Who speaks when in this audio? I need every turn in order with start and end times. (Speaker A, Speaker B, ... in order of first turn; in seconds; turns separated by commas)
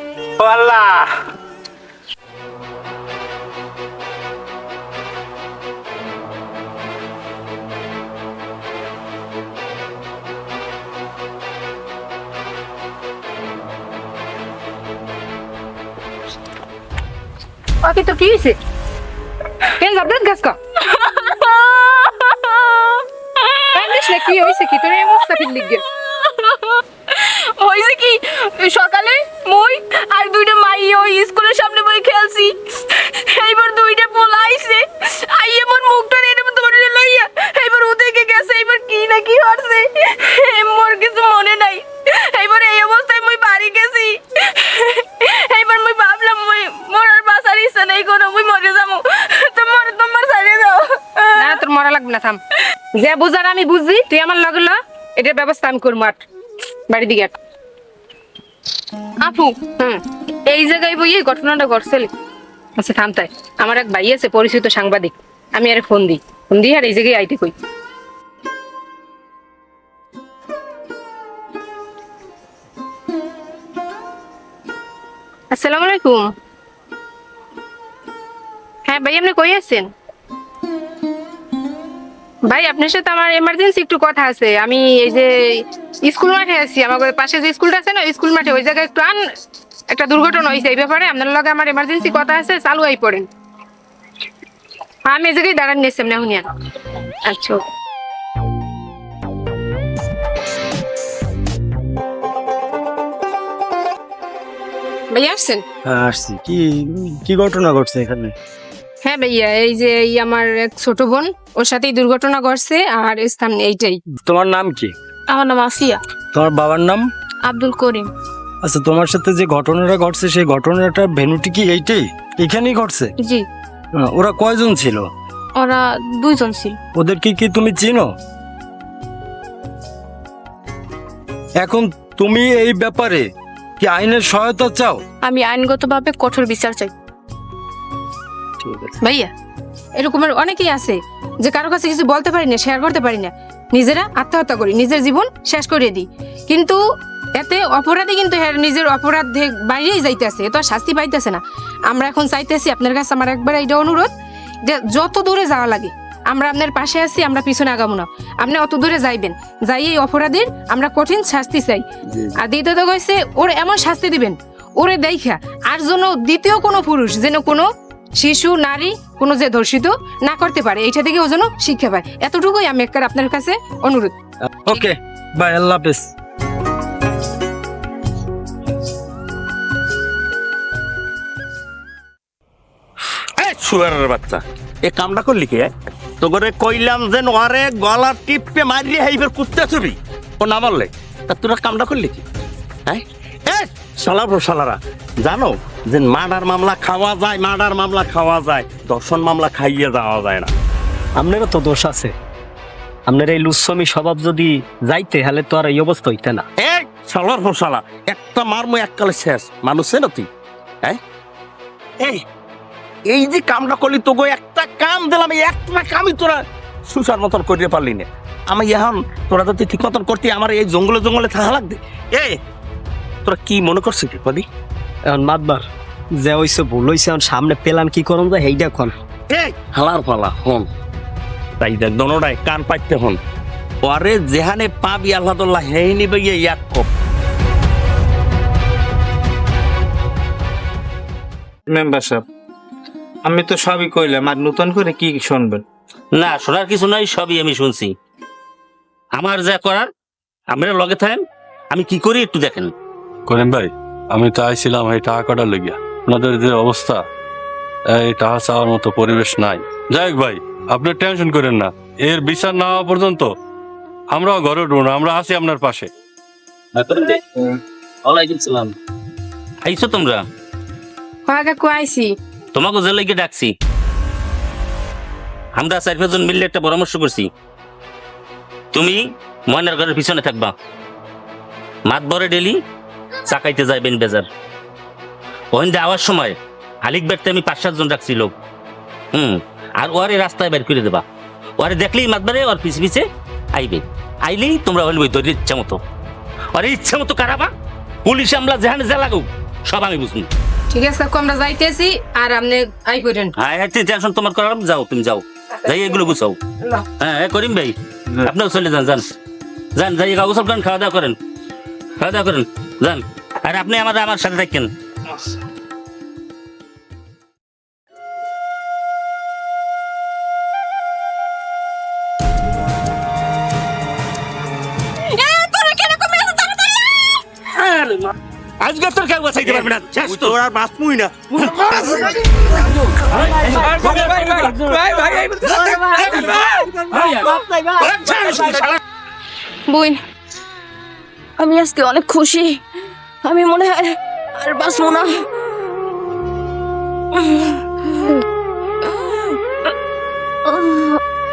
Speaker A: 0.4-1.1, Speaker B: 17.8-18.6, Speaker B: 19.8-20.6, Speaker C: 20.9-24.1, Speaker B: 23.7-25.8, Speaker C: 26.1-51.6, Speaker B: 51.4-52.4, Speaker B: 52.9-56.2, Speaker B: 56.9-57.4, Speaker B: 59.2-62.1, Speaker B: 62.8-67.5, Speaker B: 75.5-76.3, Speaker B: 78.9-79.9, Speaker B: 82.5-89.2, Speaker B: 89.9-93.3, Speaker B: 95.0-96.5, Speaker B: 97.2-97.6, Speaker B: 105.1-105.6, Speaker D: 105.8-108.3, Speaker B: 109.0-114.0, Speaker D: 114.2-114.9, Speaker C: 115.3-116.0, Speaker D: 116.3-117.1, Speaker C: 117.5-118.1, Speaker D: 118.6-123.1, Speaker D: 123.9-125.1, Speaker C: 125.5-126.8, Speaker D: 126.9-128.1, Speaker D: 131.6-133.3, Speaker D: 133.8-135.0, Speaker C: 135.2-136.9, Speaker D: 138.6-138.9, Speaker B: 140.0-146.8, Speaker B: 147.3-154.1, Speaker B: 154.6-161.8, Speaker B: 162.4-174.1, Speaker D: 174.6-176.1, Speaker E: 183.4-192.2, Speaker E: 192.9-200.5, Speaker F: 201.2-202.1, Speaker F: 203.1-206.4, Speaker E: 206.6-210.3, Speaker E: 213.1-222.4, Speaker E: 223.2-224.4, Speaker F: 225.1-225.6, Speaker F: 226.2-228.9, Speaker E: 229.3-230.7, Speaker E: 231.6-233.2, Speaker E: 233.8-236.9, Speaker A: 241.7-242.2, Speaker A: 243.2-245.6, Speaker G: 246.1-247.9, Speaker G: 249.1-249.9, Speaker G: 250.5-251.2, Speaker G: 251.7-252.7, Speaker H: 253.3-257.0, Speaker H: 257.9-263.3, Speaker H: 264.1-265.9, Speaker G: 269.6-270.2, Speaker B: 271.3-272.1, Speaker G: 272.5-273.5, Speaker G: 275.5-277.3, Speaker G: 278.7-280.5, Speaker G: 281.9-282.6, Speaker G: 283.3-284.3, Speaker G: 285.5-288.3, Speaker G: 289.1-291.0, Speaker G: 291.6-295.8, Speaker G: 296.5-297.5, Speaker G: 298.0-300.3, Speaker B: 300.7-303.3, Speaker G: 303.4-309.0, Speaker G: 309.8-311.2, Speaker G: 312.0-314.7, Speaker C: 325.2-326.9, Speaker G: 327.5-330.4, Speaker E: 329.4-333.1, Speaker G: 333.0-334.6, Speaker E: 333.8-337.1, Speaker G: 336.9-337.4, Speaker E: 337.8-338.8, Speaker B: 339.7-340.0, Speaker C: 341.4-342.6, Speaker C: 343.2-345.2, Speaker C: 350.5-351.0